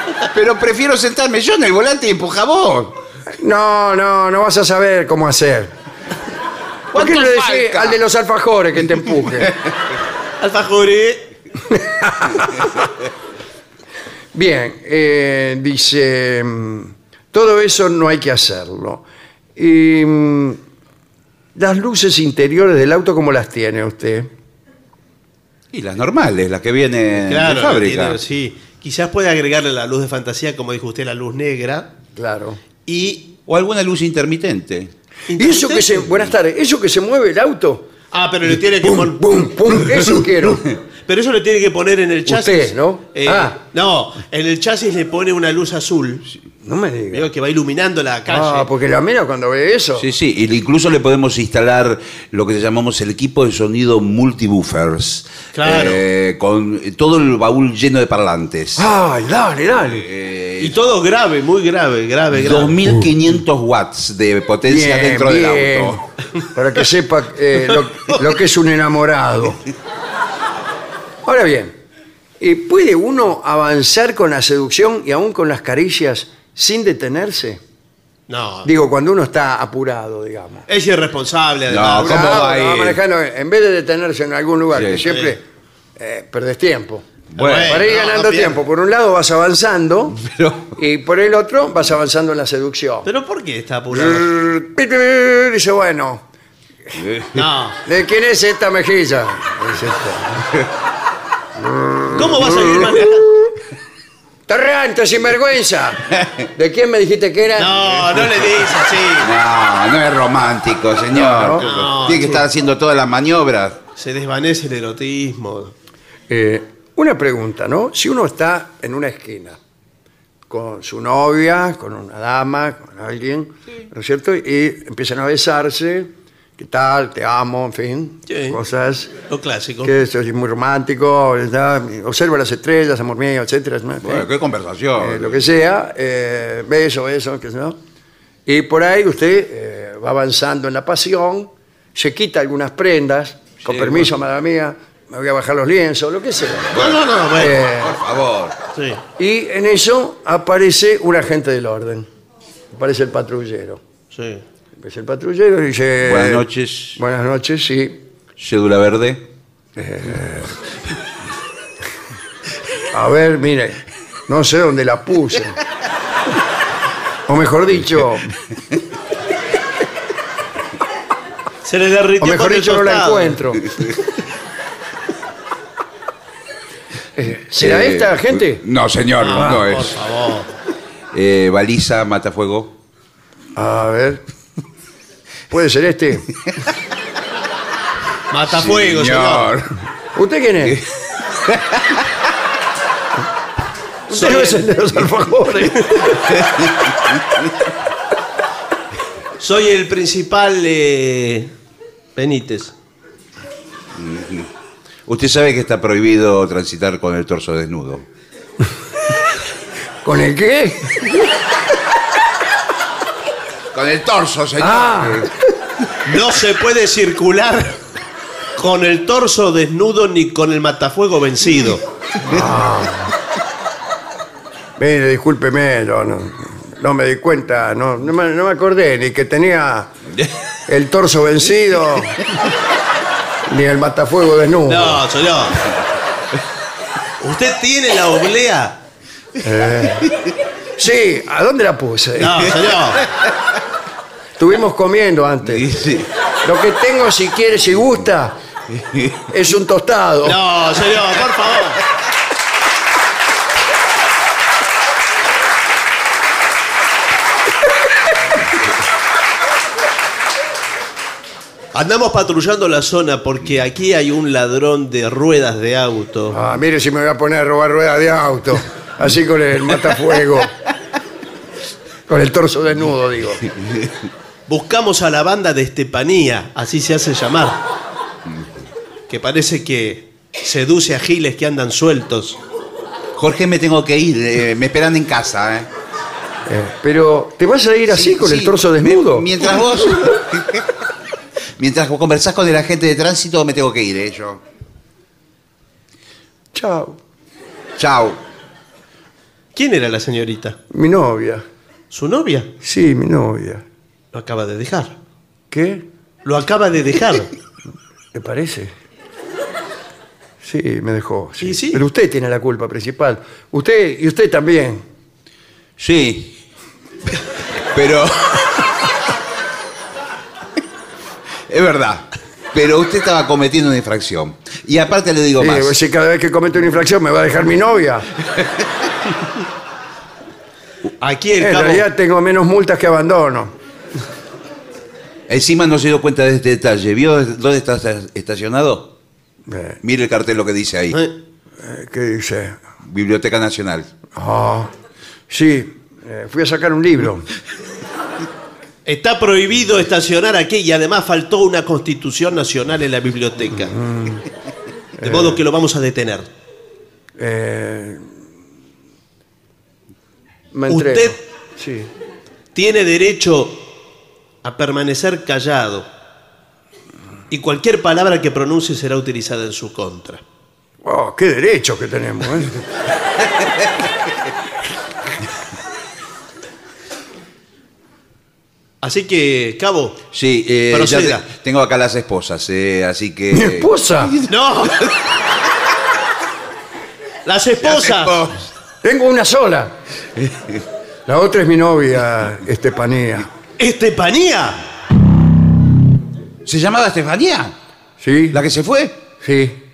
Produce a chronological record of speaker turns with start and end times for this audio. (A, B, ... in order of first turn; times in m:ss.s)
0:00.3-0:03.0 A
0:03.4-0:05.7 B
0:06.9-0:08.0 A
0:06.9-0:09.5 B
0:10.4-0:11.3 C
0:11.7-0:12.7 B
0:14.3-0:19.0 B
0:19.6-0:20.6 B
0:21.6-0:24.3 B
0:25.7-0:28.2 A
0:27.2-0:31.9 C
0:32.2-0:32.6 B
0:32.9-0:33.4 C
0:33.5-0:34.9 A
0:35.3-0:36.1 C
0:35.4-0:37.8 B
0:38.1-0:39.2 C
0:38.8-0:40.6 B
0:41.0-0:46.2 C
0:42.3-0:43.6 B
0:46.6-0:47.3 B
0:47.1-0:48.7 C
0:48.3-0:50.1 B
0:50.0-0:58.9 A
0:55.5-0:56.0 C
0:58.8-1:00.1 B
0:59.9-1:00.8 A
1:00.6-1:02.8 C
1:02.3-1:06.0 A
1:04.6-1:06.0 B
1:06.5-1:09.6 B
1:11.2-1:11.8 B
1:12.4-1:17.6 B
1:18.3-1:18.7 C
1:18.6-1:20.6 B
1:20.7-1:22.4 C
1:21.7-1:23.0 A
1:22.0-1:25.4 B
1:24.8-1:25.1 A
1:25.1-1:25.3 C
1:26.0-1:27.1 B
1:27.3-1:27.8 A
1:27.4-1:28.6 C
1:27.6-1:30.2 B
1:30.2-1:30.7 A
1:30.8-1:33.1 B
1:33.0-1:34.3 C
1:33.9-1:36.2 B
1:37.0-1:37.4 A
1:37.4-1:37.8 C
1:37.8-1:40.5 B
1:41.6-1:43.0 B
1:42.1-1:43.2 C
1:44.5-1:47.9 B
1:47.6-1:49.3 C
1:49.2-1:53.8 A
1:51.1-1:51.7 B
1:51.6-1:52.4 C
1:54.0-1:55.7 C
1:56.3-1:59.6 B
2:00.5-2:09.1 B
2:08.3-2:08.6 C
2:09.3-2:09.9 C
2:09.8-2:14.3 B
2:14.0-2:15.4 A
2:15.0-2:17.8 B
2:18.5-2:26.7 B
2:26.7-2:27.0 A
2:26.7-2:27.6 C
2:27.4-2:28.0 B
2:27.8-2:28.6 A
2:28.8-2:29.0 C
2:29.2-2:32.1 B
2:32.7-2:33.8 B
2:34.1-2:34.4 C
2:34.8-2:36.4 B
2:36.0-2:37.0 A
2:37.0-2:38.0 B
2:38.4-2:39.2 A
2:39.8-2:40.5 B
2:42.9-2:45.6 B
2:47.3-2:48.3 B
2:51.6-2:53.4 C
2:52.2-2:53.6 B
2:57.2-2:58.6 B
2:57.6-3:00.0 A
2:59.2-3:00.5 C
2:59.4-2:59.6 B
3:01.1-3:02.7 A
3:03.6-3:04.2 B
3:05.5-3:06.3 B
3:08.3-3:09.5 C
3:08.5-3:09.7 A
3:10.2-3:10.8 B
3:14.1-3:16.2 B
3:14.1-3:14.7 C
3:19.4-3:21.5 C
3:22.2-3:22.7 C
3:24.0-3:24.5 A
3:25.1-3:28.0 A
3:30.0-3:30.9 B
3:33.7-3:35.3 A
3:34.6-3:35.3 B
3:36.1-3:37.8 C
3:38.6-3:41.8 C
3:42.2-3:43.1 B
3:44.8-3:49.9 B
3:50.7-3:52.2 B
3:53.5-3:55.0 B
3:54.7-3:55.6 C
3:57.2-3:58.8 C
3:59.4-4:00.1 B
4:00.8-4:02.5 B
4:02.2-4:03.0 C
4:04.4-4:05.7 B
4:05.5-4:06.1 A
4:06.4-4:08.4 B
4:08.8-4:09.1 A
4:09.3-4:10.4 B
4:10.2-4:11.8 C
4:21.7-4:26.4 C
4:26.3-4:30.5 B
4:32.1-4:33.4 B
4:34.5-4:37.6 C
4:39.1-4:42.4 C
4:43.2-4:45.7 A
4:46.5-4:49.3 B
4:47.9-4:50.6 A
4:51.6-4:54.4 A
4:56.5-4:57.0 B
4:57.8-4:58.2 A
4:59.6-5:00.6 C
5:00.7-5:01.4 B
5:01.9-5:02.5 C
5:02.6-5:03.6 B
5:04.1-5:05.0 C
5:05.5-5:05.8 B
5:06.2-5:07.3 C
5:08.1-5:08.7 B
5:10.4-5:14.8 B
5:11.4-5:11.8 C
5:15.8-5:16.4 A
5:17.7-5:18.5 A
5:21.5-5:25.8 A
5:25.4-5:28.1 B
5:31.0-5:31.9 C
5:31.4-5:33.5 B
5:35.3-5:38.9 A
5:39.5-5:39.8 B
5:39.8-5:41.0 A
5:41.6-5:42.6 B
5:42.8-5:43.9 A
5:44.1-5:44.7 B
5:45.3-5:47.2 B
5:48.8-5:53.7 C
5:53.6-5:54.2 B
5:55.0-5:55.4 B
5:55.0-5:56.3 C
5:57.2-5:58.0 B
6:00.5-6:01.9 B
6:00.7-6:01.2 C
6:02.5-6:03.7 C
6:04.4-6:05.9 C
6:07.3-6:10.2 C
6:10.8-6:12.6 B
6:18.8-6:20.0 C
6:20.1-6:24.3 A
6:20.7-6:21.2 C
6:23.3-6:24.2 B
6:24.3-6:24.8 C
6:27.2-6:28.3 C
6:27.6-6:28.4 A
6:28.8-6:29.7 B
6:31.1-6:33.3 B
6:33.6-6:34.6 C
6:36.4-6:37.5 A
6:38.0-6:38.4 B
6:38.3-6:39.0 A
6:39.2-6:39.6 B